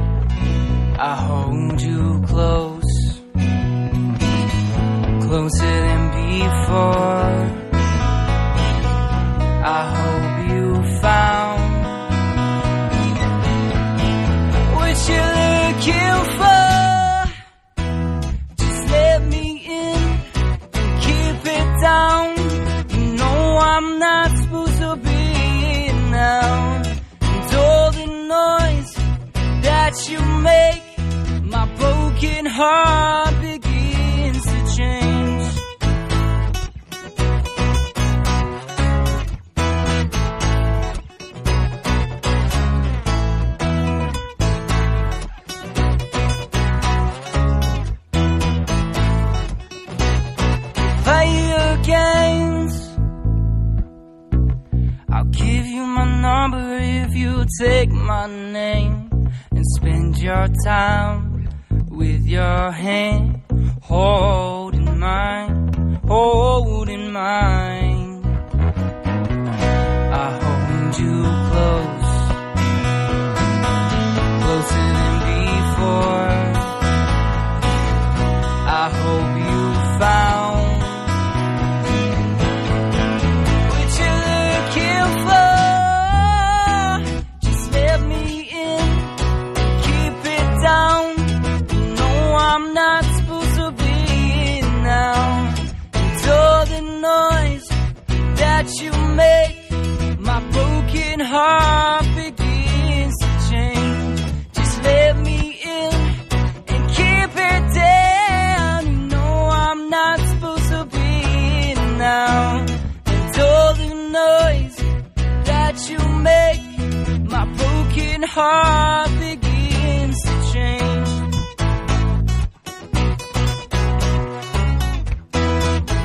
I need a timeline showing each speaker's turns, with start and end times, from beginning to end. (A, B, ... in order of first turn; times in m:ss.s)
0:00.9-0:03.2 A
0:05.2-0:07.6 A
0:09.6-0:12.0 A
0:14.6-0:17.3 A
0:18.5-0:29.0 A
0:29.5-0:35.6 A
0:50.8-0:52.9 A
0:55.1-1:08.3 A
1:10.1-1:12.4 A
1:14.3-1:16.7 A
1:18.6-1:21.1 A
1:23.6-1:54.8 A
1:55.4-2:01.2 A